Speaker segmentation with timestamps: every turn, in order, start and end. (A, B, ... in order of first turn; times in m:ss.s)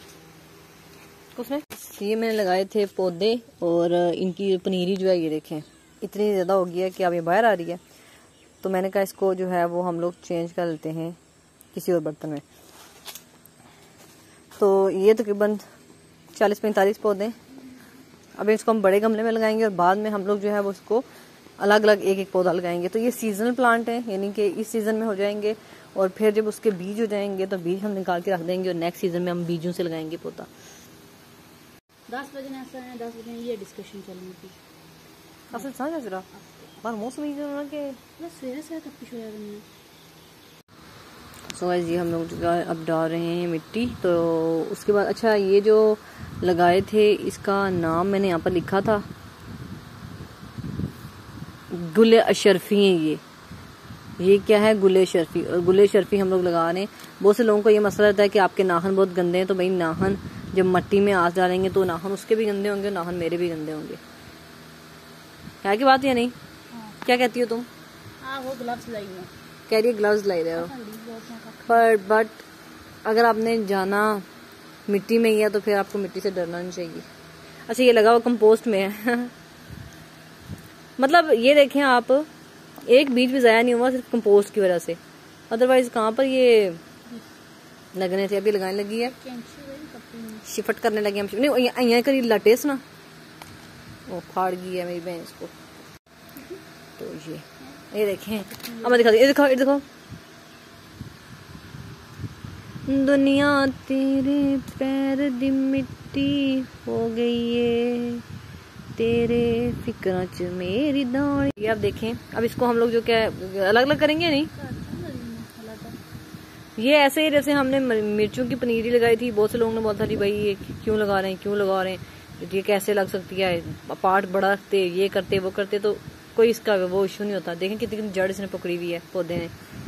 0:01.4-0:07.8 A
0:08.6-0:11.2 A
0:11.7-0:12.4 A
0:14.6-0:15.6 A
0:16.4-0:17.4 A
0:18.4-0:21.1 A
0:21.6-0:30.5 A
0:32.1-0:34.6 B
0:35.5-0:36.3 A
0:36.8-0:38.0 A
0:38.2-0:39.6 B
0:41.5-0:49.0 A
0:51.7-0:53.2 A
0:54.2-1:04.0 A
1:05.6-1:06.3 A
1:06.7-1:07.0 B
1:07.0-1:07.7 A
1:08.2-1:09.3 B
1:09.7-1:10.7 A
1:10.6-1:11.9 B
1:11.7-1:12.4 A
1:13.0-1:14.2 A
1:14.9-1:17.1 A
1:17.7-1:19.3 A
1:21.0-1:22.3 A
1:22.8-1:25.0 A
1:25.5-1:26.8 A
1:27.9-1:29.1 A
1:29.0-1:30.5 B
1:30.5-1:32.8 A
1:34.1-1:35.5 A
1:37.0-1:39.8 A
1:38.5-1:39.1 B
1:42.9-1:48.2 A
1:49.0-1:54.5 A
1:54.6-1:56.0 B
1:56.8-2:09.5 A